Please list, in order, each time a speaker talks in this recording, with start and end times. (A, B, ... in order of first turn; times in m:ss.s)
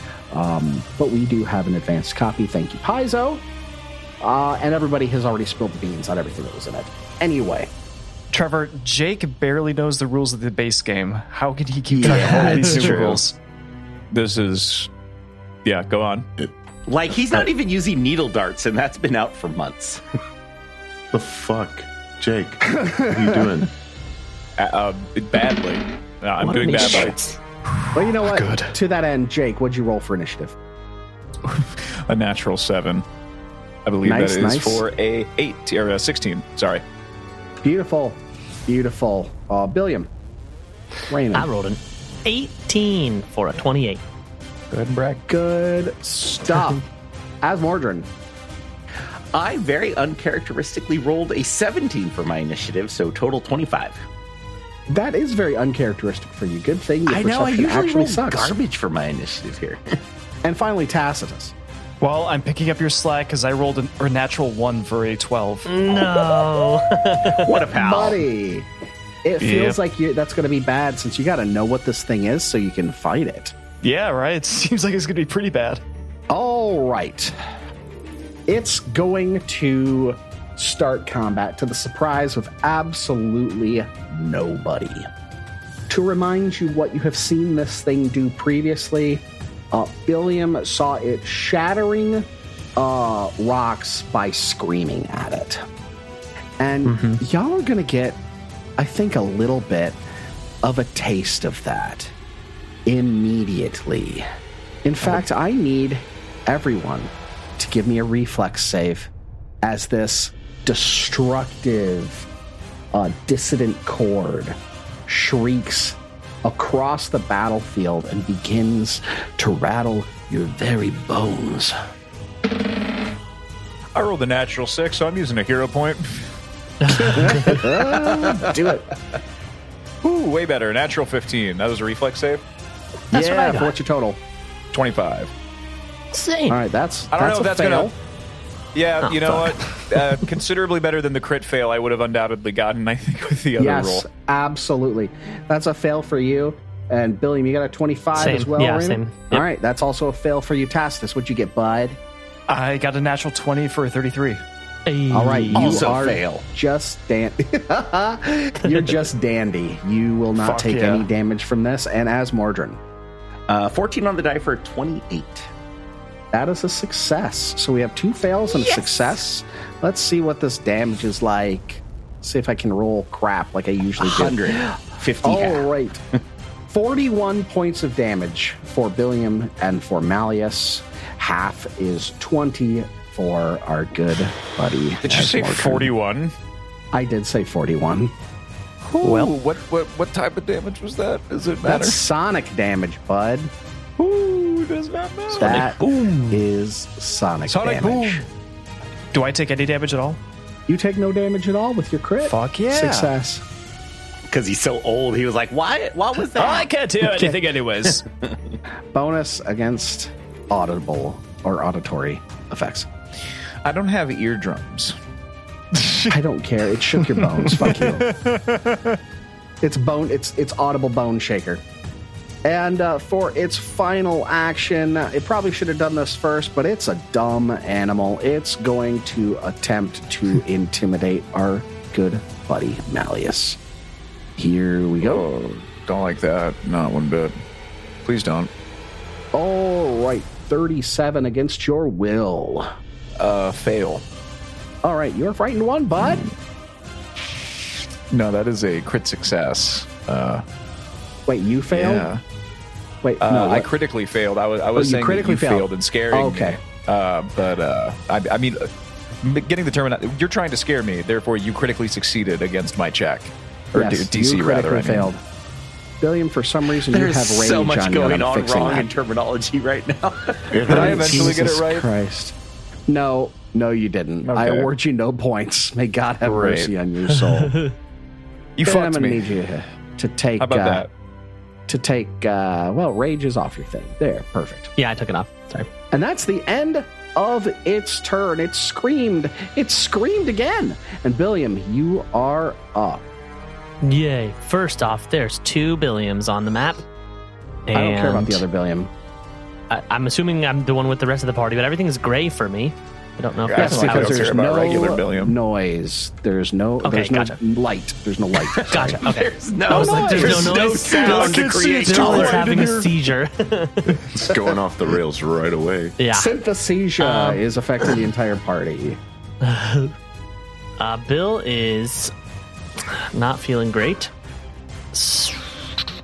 0:00.3-0:03.4 A
0:04.2-0:07.7 A
0:08.3-0:13.4 B
0:12.0-0:13.0 A
0:12.0-0:12.9 C
0:12.2-0:12.5 D
0:12.7-0:13.2 E
0:14.1-0:14.9 E
0:15.6-0:16.2 E
0:16.9-0:20.0 D
0:21.1-0:23.7 F
0:22.8-0:23.4 A
0:24.6-0:27.2 E
0:26.4-0:27.4 C
0:27.9-0:30.5 A
0:28.2-0:28.7 B
0:31.4-0:33.0 E
0:33.8-0:36.8 E
0:34.0-0:34.8 A
0:37.6-0:40.1 A
0:41.1-0:41.5 A
0:41.3-0:44.0 C
0:44.7-0:45.2 E
0:45.2-0:46.8 A
0:47.4-0:48.1 A
0:49.3-0:54.0 D
0:54.9-0:58.5 A
0:57.0-0:59.8 D
1:00.4-1:01.5 A
1:02.0-1:06.1 B
1:05.6-1:07.6 C
1:07.4-1:08.2 D
1:07.7-1:08.7 A
1:09.2-1:13.5 A
1:09.4-1:09.8 B
1:13.8-1:15.8 B
1:16.3-1:17.3 A
1:18.5-1:25.1 A
1:25.9-1:35.6 A
1:36.6-1:38.2 A
1:36.8-1:37.2 C
1:38.8-1:40.0 A
1:40.6-1:42.1 A
1:42.8-1:44.2 A
1:44.8-1:49.1 A
1:49.6-1:52.3 A
1:52.9-2:01.7 A
2:03.9-2:06.3 E
2:06.8-2:07.4 C
2:06.9-2:08.9 A
2:10.0-2:12.4 E
2:13.1-2:14.2 A
2:13.1-2:13.7 C
2:14.7-2:15.3 E
2:16.2-2:16.5 D
2:16.5-2:17.9 A
2:17.1-2:17.9 E
2:18.7-2:24.0 E
2:19.0-2:19.8 C
2:23.6-2:32.0 A
2:28.1-2:29.4 C
2:32.5-2:34.4 B
2:34.8-2:35.7 C
2:35.1-2:42.8 A
2:35.5-2:36.4 D
2:40.4-2:41.1 B
2:43.5-2:45.5 D
2:46.3-2:56.0 A
2:48.5-2:49.1 D
2:54.0-2:55.7 D
2:56.7-3:05.9 A
3:05.0-3:06.3 E
3:06.9-3:08.1 A
3:08.8-3:12.0 E
3:11.6-3:13.5 A
3:14.0-3:16.4 E
3:15.3-3:18.2 A
3:17.5-3:18.2 E
3:19.1-3:20.2 B
3:20.7-3:23.4 A
3:22.2-3:23.1 B
3:24.3-3:26.7 D
3:26.3-3:27.6 B
3:27.0-3:28.0 E
3:28.9-3:32.9 A
3:33.6-3:34.9 E
3:35.8-3:36.0 E
3:36.1-3:38.1 A
3:37.6-3:38.7 E
3:39.6-3:41.6 A
3:42.4-3:53.6 A
3:54.4-3:55.2 A
3:55.0-3:57.3 E
3:58.0-3:58.5 E
3:59.3-4:02.7 A
4:03.2-4:04.0 E
4:04.8-4:06.3 A
4:06.0-4:06.3 E
4:08.1-4:10.4 E
4:11.3-4:12.1 A
4:11.7-4:12.2 E
4:13.0-4:13.7 A
4:13.2-4:18.7 E
4:14.8-4:16.6 A
4:19.2-4:25.1 E
4:23.7-4:25.2 A
4:26.0-4:28.9 A
4:26.8-4:30.6 D
4:30.5-4:31.4 F
4:30.6-4:32.3 A
4:30.7-4:31.9 E
4:32.9-4:37.6 A
4:34.2-4:34.7 E
4:36.2-4:36.7 E
4:38.6-4:39.3 E
4:38.6-4:40.8 A
4:40.4-4:40.9 E
4:41.7-4:44.7 A
4:44.8-4:45.7 C
4:45.9-4:53.0 A
4:53.8-4:56.8 C
4:57.7-4:58.4 C
4:57.7-4:58.9 A
4:59.7-5:04.4 C
5:03.5-5:05.4 E
5:03.5-5:09.0 A
5:06.8-5:07.4 C
5:08.5-5:12.6 D
5:08.7-5:14.0 C
5:09.7-5:10.6 A
5:10.9-5:12.9 B
5:14.1-5:16.0 F
5:16.0-5:16.3 C
5:16.1-5:19.0 A
5:17.0-5:17.4 C
5:19.4-5:19.9 C
5:20.8-5:22.1 C
5:22.9-5:24.1 C
5:24.9-5:25.7 C